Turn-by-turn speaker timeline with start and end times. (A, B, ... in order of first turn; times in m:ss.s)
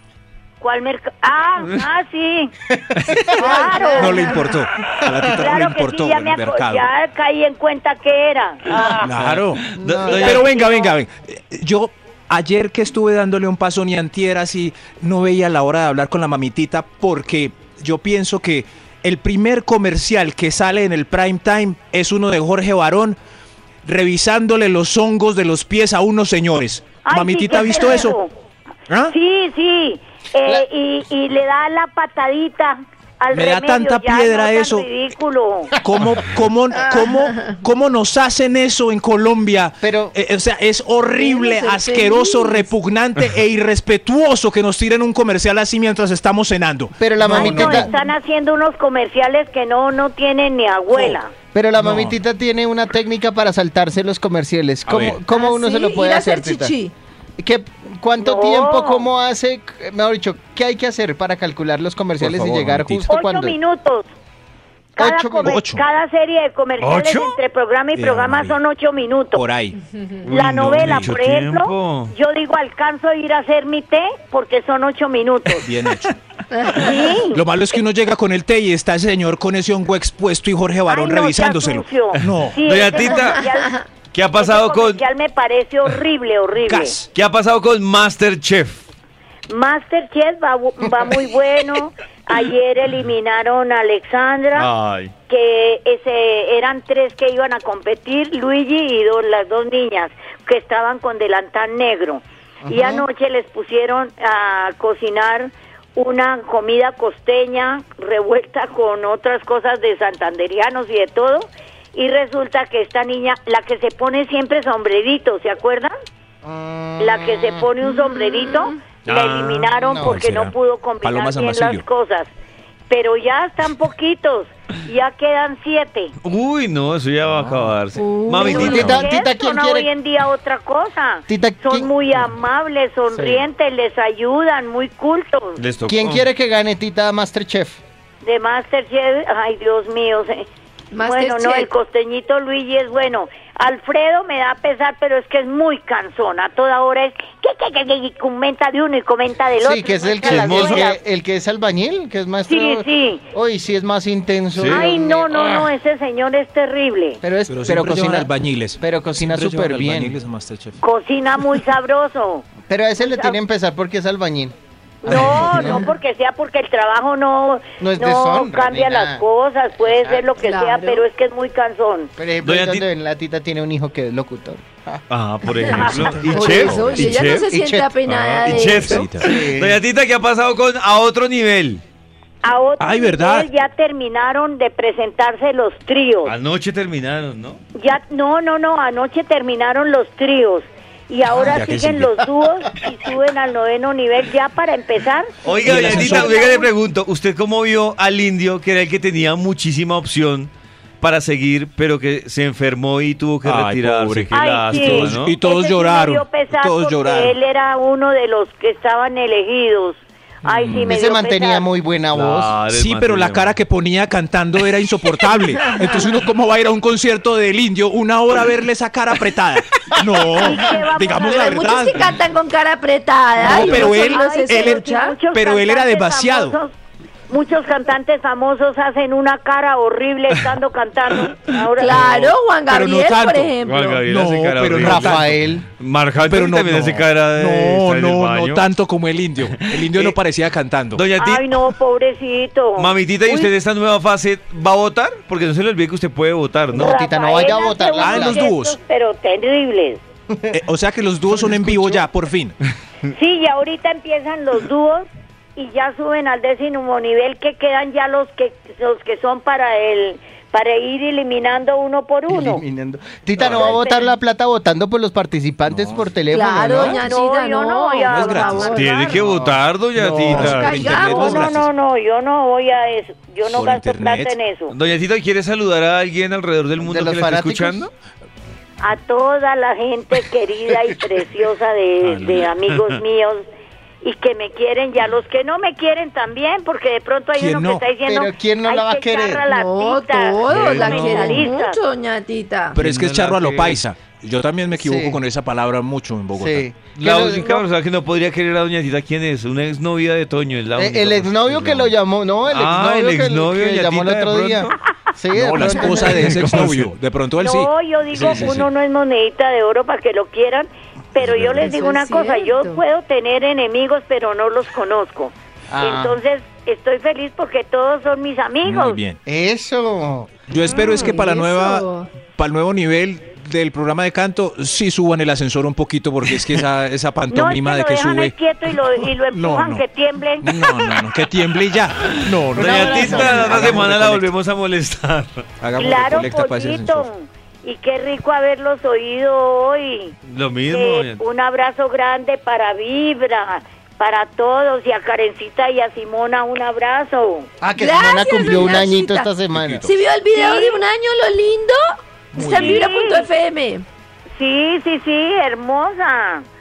0:00.6-0:02.5 A
0:02.7-0:04.2 B
0:03.1-0:06.9 C
0:03.4-0:04.5 D
0:03.4-0:04.3 A
0:05.4-0:09.1 A
0:08.9-0:10.5 E
0:09.0-0:23.2 C
0:09.8-0:10.4 B
0:10.1-0:11.0 A
0:23.8-0:28.2 C
0:27.0-0:28.3 A
0:29.1-0:35.7 A
0:33.3-0:34.9 C
0:35.8-0:47.9 C
0:36.7-0:37.5 D
0:39.8-0:40.1 B
0:41.2-0:42.7 D
0:47.0-0:47.9 B
0:47.4-0:51.3 A
0:51.5-0:56.7 B
0:51.8-0:52.2 C
0:54.9-0:55.2 C
0:55.3-0:56.9 D
0:57.4-1:03.6 B
0:58.2-0:59.1 A
1:02.2-1:03.1 C
1:03.1-1:04.1 A
1:05.0-1:09.4 A
1:05.0-1:05.6 B
1:05.4-1:05.8 C
1:06.8-1:07.4 E
1:07.9-1:08.6 C
1:09.3-1:09.8 C
1:10.2-1:12.1 E
1:10.3-1:15.7 A
1:10.8-1:11.1 C
1:15.6-1:16.1 C
1:16.6-1:17.0 D
1:16.7-1:17.4 A
1:17.3-1:22.6 C
1:20.9-1:23.8 A
1:22.6-1:23.4 E
1:23.0-1:23.8 D
1:24.1-1:25.0 E
1:24.3-1:27.0 A
1:26.6-1:27.1 C
1:27.1-1:28.8 E
1:29.5-1:34.7 A
1:34.5-1:35.1 E
1:35.3-1:55.9 A
1:42.6-1:43.0 B
1:56.4-1:57.7 B
1:57.0-2:02.3 A
1:58.1-1:58.7 D
1:59.0-1:59.7 E
1:59.8-2:00.2 B
2:00.0-2:01.8 C
2:02.9-2:06.1 A
2:06.2-2:09.0 E
2:08.0-2:09.0 D
2:08.4-2:15.6 A
2:08.4-2:09.9 B
2:11.3-2:11.9 B
2:13.1-2:13.5 B
2:15.6-2:16.3 E
2:15.9-2:17.8 B
2:18.2-2:20.5 A
2:20.9-2:21.7 D
2:21.0-2:31.0 A
2:29.6-2:35.7 B
2:30.2-2:30.9 E
2:32.4-2:33.2 A
2:34.5-2:34.8 E
2:34.7-2:37.2 A
2:37.2-2:40.2 B
2:37.5-2:40.8 C
2:40.8-2:42.5 A
2:42.7-2:44.5 B
2:43.0-2:43.4 A
2:45.0-2:52.1 A
2:45.1-2:45.8 B
2:45.1-2:45.8 D
2:47.8-2:49.2 B
2:49.8-2:50.3 B
2:50.4-2:51.0 D
2:52.2-2:55.0 B
2:52.4-2:52.8 E
2:55.1-2:57.5 E
2:55.7-2:56.7 A
2:56.2-2:59.1 D
2:56.3-2:58.0 B
2:58.0-3:01.8 E
2:58.6-2:59.3 C
2:59.2-2:59.8 B
3:02.4-3:06.3 A
3:02.8-3:03.5 C
3:06.2-3:07.6 E
3:07.8-3:16.7 A
3:11.3-3:12.2 C
3:15.4-3:25.3 E
3:15.6-3:16.4 C
3:23.4-3:27.3 C
3:24.3-3:31.7 A
3:30.4-3:30.9 E
3:30.7-3:32.6 B
3:32.1-3:33.5 E
3:32.7-3:42.0 C
3:35.4-3:36.2 D
3:40.3-3:41.9 A
3:40.6-3:45.2 D
3:43.4-3:46.6 C
3:43.4-3:46.7 A
3:47.3-3:52.3 A
3:51.7-3:54.0 D
3:51.9-3:53.5 C
3:53.6-3:58.6 E
3:54.0-3:55.3 C
3:54.8-3:55.6 B
3:56.2-4:01.0 C
3:59.8-4:00.2 E
4:00.9-4:01.6 E
4:01.2-4:03.5 A
4:02.8-4:07.0 E
4:06.7-4:08.5 B
4:06.7-4:10.0 A
4:08.0-4:08.8 C
4:10.3-4:10.6 B
4:10.5-4:12.5 C
4:11.4-4:12.0 B
4:13.1-4:22.6 A
4:22.3-4:27.1 B
4:23.3-4:23.8 E
4:23.5-4:24.1 A
4:25.7-4:26.0 C
4:26.3-4:29.2 D
4:26.9-4:29.2 A
4:28.1-4:28.7 C
4:28.7-4:31.3 E
4:29.2-4:29.5 B
4:30.0-4:31.7 C
4:30.5-4:31.5 D
4:31.0-4:34.7 A
4:33.5-4:34.4 C
4:34.7-4:37.9 E
4:36.8-4:37.9 B
4:38.8-4:43.4 A
4:42.0-4:43.0 E
4:44.0-4:51.8 A
4:47.4-4:47.8 C
4:48.0-4:49.4 B
4:49.5-4:52.8 D
4:50.4-4:51.5 E
4:52.7-4:56.7 C
4:52.7-4:53.8 E
4:54.7-4:55.2 B
4:56.4-4:57.4 B
4:57.0-5:01.9 E
4:57.3-4:57.7 A
5:00.8-5:06.7 B
5:02.5-5:04.8 E
5:05.3-5:08.6 C
5:05.7-5:06.3 D
5:06.0-5:06.8 E
5:07.4-5:19.0 A
5:11.2-5:11.7 E
5:11.6-5:12.8 D
5:15.7-5:16.2 B
5:18.6-5:19.2 C
5:19.2-5:20.4 B
5:20.5-5:29.8 C
5:20.6-5:22.2 D
5:27.3-5:30.5 A
5:30.4-5:34.3 C
5:32.1-5:35.4 E
5:32.6-5:33.8 B
5:33.3-5:33.7 A
5:35.6-5:37.1 C
5:35.8-5:40.1 A
5:40.2-5:41.2 E
5:40.7-5:47.6 A
5:47.6-5:49.9 B
5:47.7-5:51.8 D
5:50.3-5:50.8 A
5:52.3-5:53.8 D
5:52.4-5:52.7 C
5:52.4-5:53.3 A
5:54.4-5:56.4 A